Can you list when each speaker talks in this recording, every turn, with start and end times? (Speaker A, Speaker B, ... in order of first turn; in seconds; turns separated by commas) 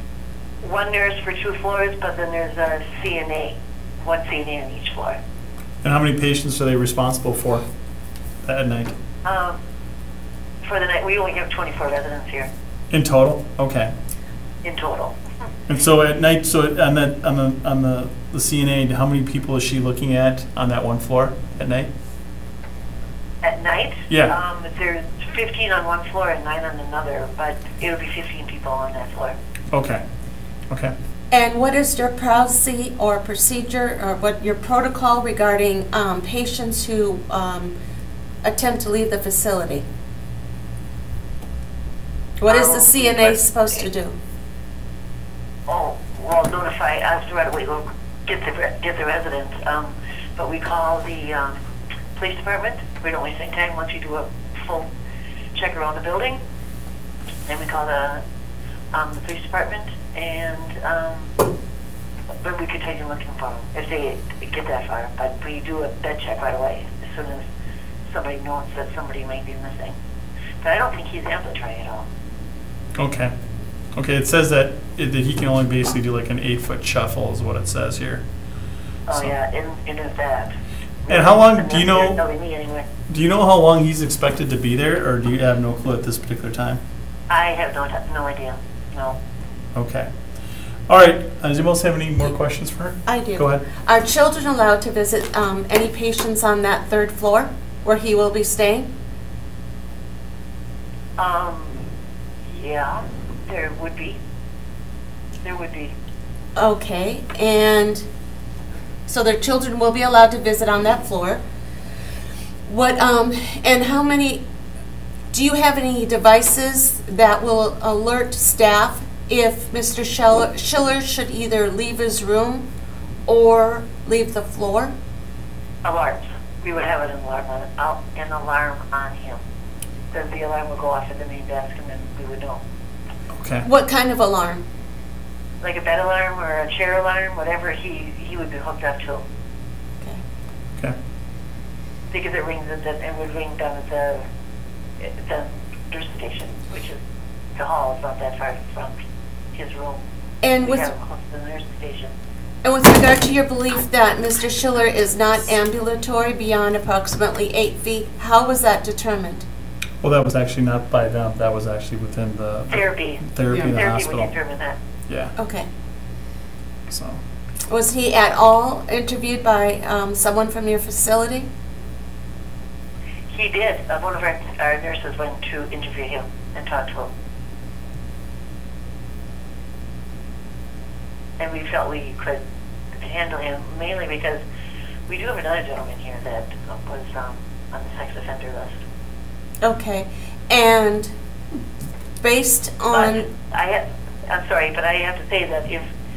Speaker A: 0.6-5.2, Speaker B: 5.8-7.6, Speaker B: 8.4-8.9, Speaker A: 9.2-9.6, Speaker A: 10.6-12.5, Speaker B: 12.9-13.9, Speaker A: 14.6-15.2, Speaker B: 15.7-21.9, Speaker A: 23.4-29.4, Speaker B: 29.7-30.0, Speaker C: 31.3-37.7, Speaker C: 38.4-39.8, Speaker C: 42.4-44.2, Speaker A: 42.5-43.9, Speaker A: 45.7-51.6, Speaker A: 52.1-54.9, Speaker A: 55.5-56.4, Speaker A: 57.5-58.2, Speaker A: 58.9-61.3, Speaker A: 62.4-67.4, Speaker A: 68.1-70.0, Speaker A: 70.6-72.1, Speaker B: 73.0-73.3, Speaker B: 73.9-78.2, Speaker A: 79.1-80.5, Speaker A: 81.0-82.8, Speaker B: 81.1-82.2, Speaker B: 83.1-86.8, Speaker A: 87.3-89.2, Speaker B: 89.7-90.1, Speaker B: 90.9-93.7, Speaker C: 93.1-98.9, Speaker A: 101.2-101.8, Speaker A: 102.5-104.2, Speaker A: 105.4-105.9, Speaker C: 106.5-108.0, Speaker C: 109.1-111.4, Speaker C: 112.7-114.4, Speaker C: 115.3-122.6, Speaker C: 123.3-124.9, Speaker A: 125.8-129.4, Speaker A: 130.1-132.6, Speaker B: 133.3-133.7, Speaker C: 133.6-134.6, Speaker A: 135.6-139.2, Speaker A: 142.1-144.2, Speaker A: 145.0-147.0, Speaker A: 147.6-148.9, Speaker A: 149.5-150.0, Speaker C: 150.4-150.9, Speaker A: 150.6-152.1, Speaker C: 152.6-159.4, Speaker B: 160.0-164.3, Speaker A: 162.7-164.8, Speaker B: 165.1-165.3, Speaker C: 165.4-165.7, Speaker B: 166.9-167.2, Speaker C: 167.7-171.5, Speaker A: 173.3-177.1, Speaker A: 181.4-182.4, Speaker A: 182.9-184.4, Speaker A: 185.1-188.8, Speaker C: 189.6-191.1, Speaker C: 192.2-193.3, Speaker A: 192.9-195.9